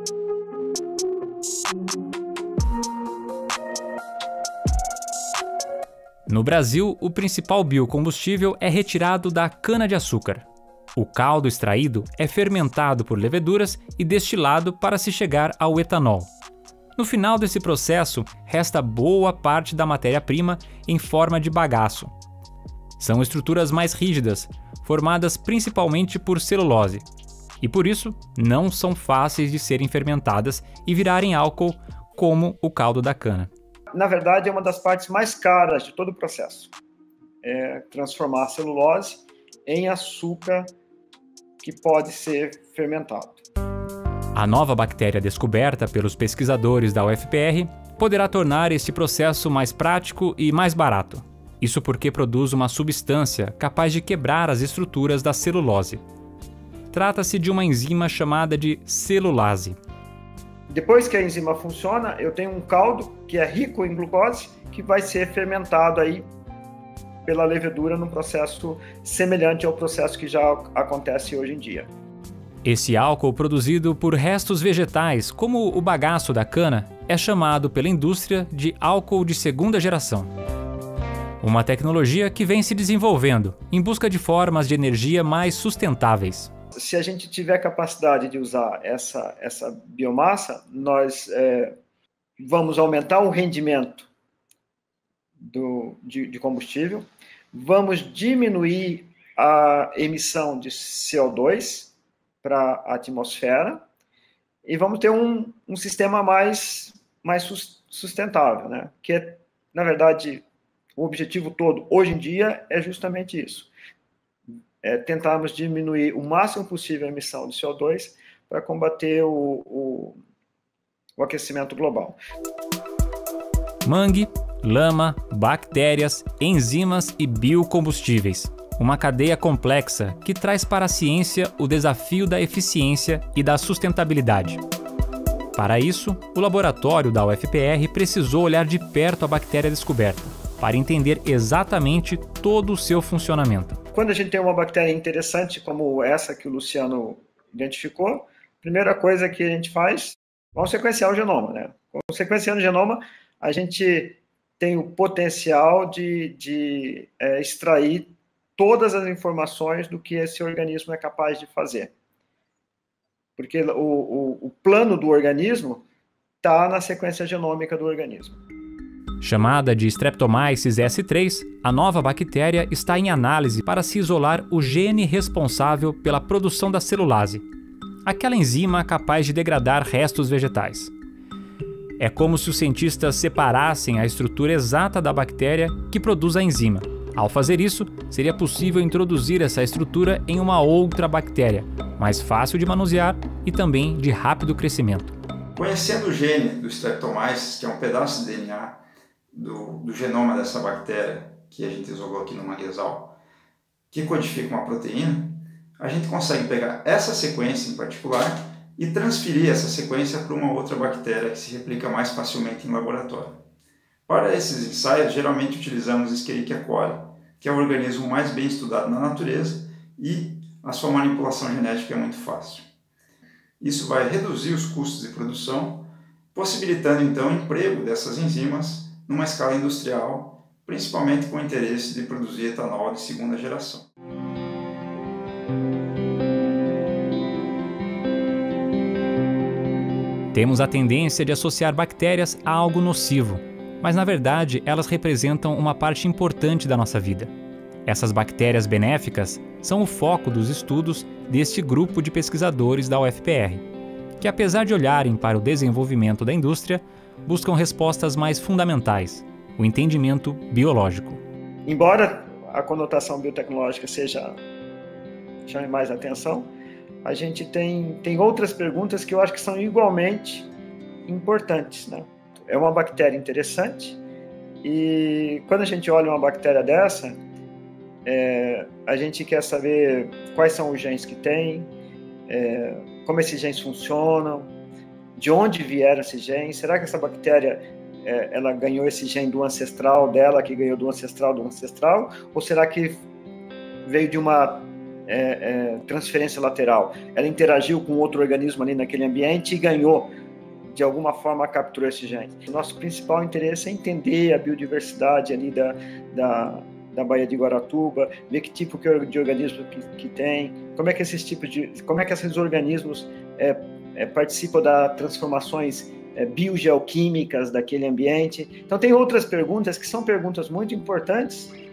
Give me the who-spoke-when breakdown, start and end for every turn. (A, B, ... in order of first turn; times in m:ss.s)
0:06.3-0:16.3 A
0:17.0-0:22.1 A
0:23.0-0:27.0 A
0:27.6-0:33.5 A
0:33.9-0:36.7 B
0:37.4-0:40.7 B
0:41.6-0:43.4 B
0:44.4-0:56.0 A
0:56.9-0:59.8 A
1:00.7-1:06.3 B
1:07.3-1:11.9 B
1:12.6-1:20.3 A
1:21.4-1:26.5 A
1:26.8-1:31.8 B
1:32.4-1:34.1 B
1:35.4-1:41.9 B
1:42.4-1:43.8 B
1:44.6-1:50.4 B
1:51.0-1:53.7 B
1:54.8-2:00.2 B
2:01.2-2:02.2 B
2:03.8-2:14.6 A
2:15.6-2:23.8 A
2:23.9-2:41.9 B
2:43.4-2:45.8 B
2:46.4-2:48.4 B
2:49.2-2:57.4 A
2:58.0-3:00.9 A
3:02.0-3:15.2 A
3:15.6-3:18.8 C
3:19.3-3:23.2 C
3:23.9-3:33.4 C
3:34.1-3:42.7 C
3:43.6-3:53.9 C
4:00.3-4:07.3 A
4:07.9-4:13.6 A
4:14.2-4:21.2 A
4:21.7-4:24.4 B
4:25.5-4:26.5 B
4:27.0-4:30.5 B
4:31.1-4:34.0 B
4:34.6-4:37.2 B
4:38.0-4:41.7 B
4:42.3-4:44.5 B
4:45.2-4:53.0 B
4:53.8-5:00.1 B
5:00.7-5:21.6 B